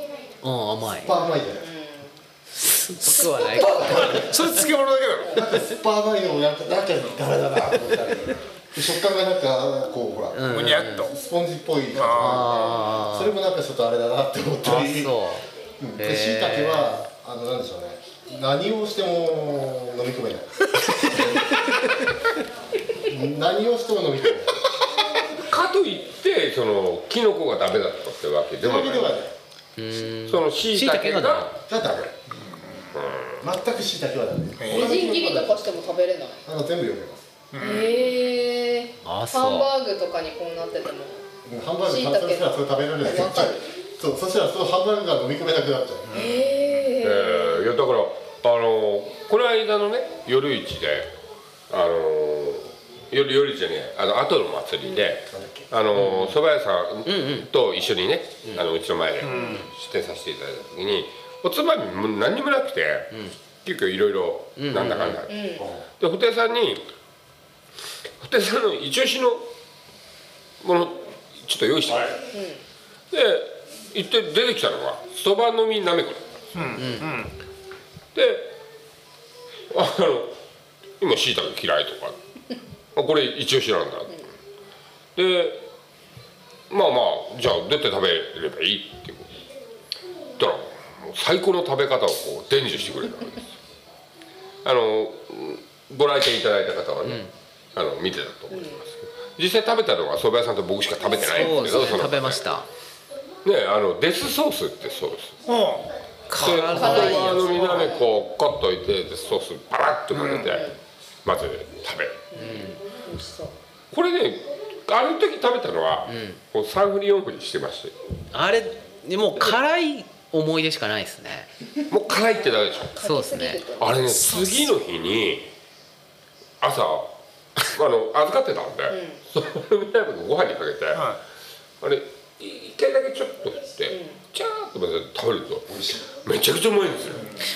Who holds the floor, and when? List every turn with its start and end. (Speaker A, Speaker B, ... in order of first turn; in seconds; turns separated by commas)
Speaker A: 0.4-1.1, Speaker B: 0.9-1.7, Speaker C: 1.4-2.2, Speaker A: 2.5-4.4, Speaker B: 3.4-4.3, Speaker D: 4.3-5.3, Speaker B: 5.3-15.1, Speaker A: 10.3-11.1, Speaker D: 10.5-11.1, Speaker D: 11.9-12.2, Speaker A: 12.2-13.3, Speaker A: 14.6-15.5, Speaker B: 15.8-21.5, Speaker A: 16.0-17.0, Speaker B: 23.0-24.6, Speaker E: 25.5-29.2, Speaker B: 28.6-29.3, Speaker A: 29.8-31.5, Speaker E: 30.3-31.5, Speaker B: 31.7-32.1, Speaker E: 32.9-33.4, Speaker B: 33.4-35.7, Speaker C: 34.7-36.4, Speaker B: 36.5-37.3, Speaker C: 37.6-41.2, Speaker A: 39.0-39.7, Speaker B: 41.4-46.3, Speaker C: 41.8-43.6, Speaker C: 46.1-47.7, Speaker E: 47.0-51.1, Speaker E: 51.7-66.8, Speaker B: 55.3-55.7, Speaker A: 55.9-56.4, Speaker A: 57.0-57.5, Speaker C: 59.3-59.6, Speaker A: 64.6-65.2, Speaker C: 65.3-65.7, Speaker B: 65.5-65.8, Speaker E: 68.2-69.5, Speaker E: 70.6-72.2, Speaker C: 72.3-72.6, Speaker E: 73.1-76.2, Speaker D: 76.5-77.2, Speaker A: 76.8-77.1, Speaker E: 78.1-78.5, Speaker E: 79.7-80.3, Speaker E: 81.0-82.2, Speaker E: 82.9-84.2, Speaker E: 85.2-85.7, Speaker E: 86.7-89.4, Speaker E: 90.4-93.5, Speaker E: 94.6-97.2, Speaker A: 97.0-97.3, Speaker E: 97.7-102.5, Speaker C: 98.5-98.8, Speaker A: 101.2-102.7, Speaker E: 103.4-105.4, Speaker D: 105.5-105.9, Speaker A: 106.3-107.8, Speaker E: 106.3-110.7, Speaker C: 106.7-108.1, Speaker C: 110.1-110.8, Speaker E: 111.2-112.2, Speaker C: 112.3-113.5, Speaker A: 112.4-112.8, Speaker E: 113.9-117.9, Speaker A: 116.1-116.4, Speaker A: 118.3-121.5, Speaker E: 121.9-123.0, Speaker C: 122.4-124.3, Speaker A: 123.0-123.6, Speaker E: 123.8-125.5, Speaker E: 126.6-131.1, Speaker C: 128.9-129.2, Speaker D: 130.9-131.2, Speaker E: 131.8-137.3, Speaker C: 133.9-134.2, Speaker B: 135.7-136.1